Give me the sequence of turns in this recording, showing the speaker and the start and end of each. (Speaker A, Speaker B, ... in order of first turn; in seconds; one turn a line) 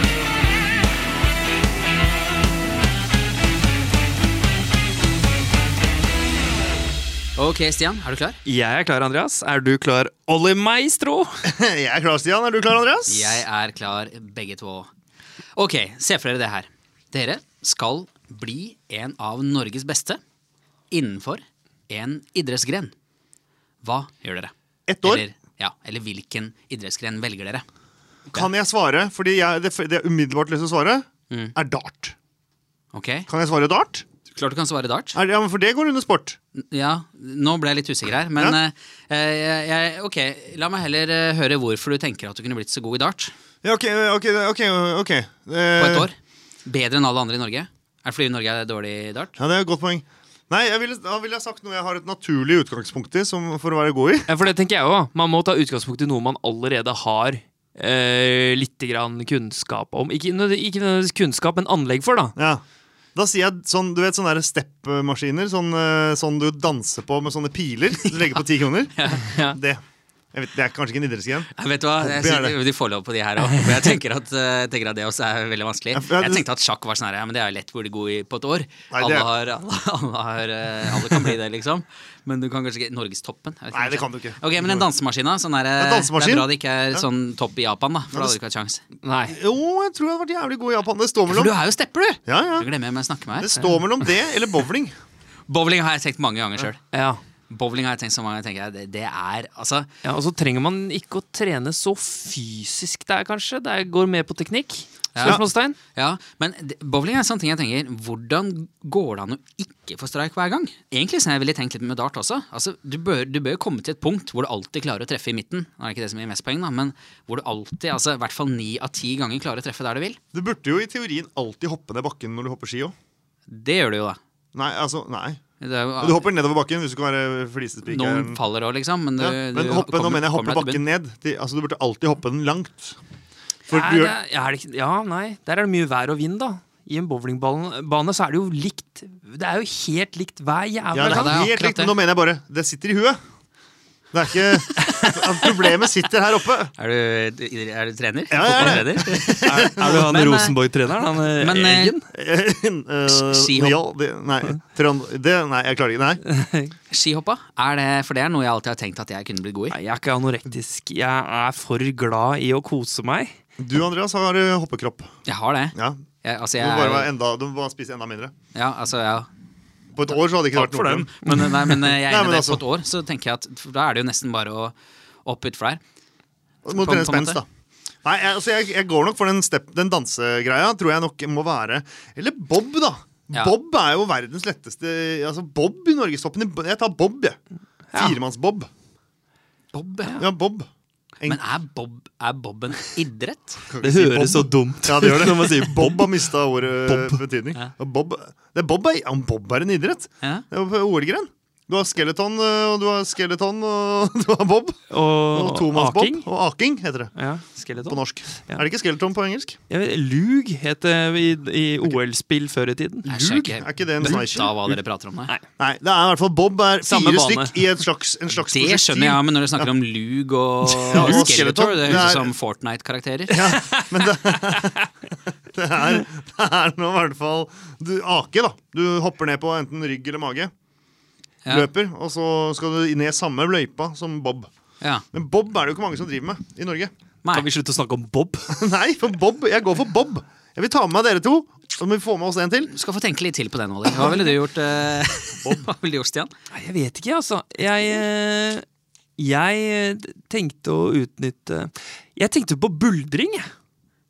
Speaker A: 7.4-8.4
Speaker B: 8.4-11.3
Speaker C: 11.4-13.4
Speaker A: 13.1-14.9
Speaker A: 15.6-20.2
Speaker A: 20.9-22.9
Speaker A: 23.8-24.5
Speaker C: 24.9-25.2
Speaker A: 25.0-27.6
Speaker C: 28.3-32.1
Speaker A: 32.9-33.3
Speaker C: 33.3-34.1
Speaker A: 34.3-35.2
Speaker C: 35.1-36.4
Speaker A: 36.6-43.3
Speaker C: 43.6-46.1
Speaker A: 45.8-46.1
Speaker A: 46.6-49.4
Speaker C: 49.4-54.3
Speaker B: 54.3-62.3
Speaker C: 62.4-62.6
Speaker C: 63.1-69.8
Speaker A: 69.0-69.3
Speaker B: 69.3-69.6
Speaker C: 70.3-72.6
Speaker A: 71.5-88.8
Speaker C: 75.9-76.5
Speaker C: 78.9-79.3
Speaker C: 83.7-84.9
Speaker C: 85.8-87.0
Speaker C: 88.1-88.4
Speaker B: 89.0-89.4
Speaker C: 89.3-91.5
Speaker A: 91.3-93.6
Speaker C: 92.2-92.7
Speaker C: 93.4-94.9
Speaker A: 95.5-96.8
Speaker B: 96.9-97.2
Speaker A: 97.5-99.9
Speaker B: 100.0-105.8
Speaker A: 105.2-105.4
Speaker A: 105.9-120.2
Speaker C: 120.3-122.9
Speaker A: 123.5-124.2
Speaker C: 124.5-125.4
Speaker A: 125.6-126.3
Speaker C: 126.0-128.4
Speaker A: 127.9-130.8
Speaker C: 129.2-133.0
Speaker C: 133.7-134.2
Speaker B: 133.7-141.3
Speaker C: 140.9-143.2
Speaker A: 141.1-142.0
Speaker C: 144.1-146.7
Speaker B: 144.8-145.3
Speaker A: 146.8-150.6
Speaker C: 148.3-150.1
Speaker B: 149.4-152.1
Speaker A: 151.4-152.0
Speaker C: 152.1-156.2
Speaker A: 153.1-153.8
Speaker B: 156.3-156.7
Speaker A: 156.9-159.8
Speaker B: 159.7-163.3
Speaker C: 163.6-165.1
Speaker A: 165.3-167.1
Speaker C: 165.8-166.0
Speaker C: 166.6-168.3
Speaker A: 168.5-169.3
Speaker C: 169.9-171.1
Speaker A: 170.1-175.8
Speaker B: 171.3-171.8
Speaker C: 172.1-172.6
Speaker C: 176.7-177.4
Speaker A: 176.7-177.4
Speaker C: 178.0-187.4
Speaker B: 187.9-188.2
Speaker C: 187.9-188.7
Speaker A: 189.7-190.2
Speaker C: 190.2-190.7
Speaker A: 191.2-193.6
Speaker C: 193.7-207.1
Speaker B: 193.8-196.2
Speaker B: 196.9-197.2
Speaker B: 204.9-206.3
Speaker B: 207.2-208.6
Speaker C: 207.8-209.6
Speaker B: 209.7-213.1
Speaker C: 213.0-214.7
Speaker A: 213.1-215.3
Speaker B: 214.0-214.3
Speaker C: 215.6-219.7
Speaker B: 216.8-217.6
Speaker A: 218.5-223.4
Speaker B: 220.8-221.3
Speaker C: 220.9-222.3
Speaker C: 223.3-224.9
Speaker B: 223.6-223.9
Speaker C: 225.5-230.5
Speaker A: 231.4-231.7
Speaker C: 231.5-234.5
Speaker C: 235.1-236.9
Speaker A: 237.2-237.5
Speaker B: 237.3-238.6
Speaker C: 238.5-242.7
Speaker A: 242.7-246.3
Speaker C: 245.4-245.7
Speaker B: 246.5-248.6
Speaker B: 249.2-253.4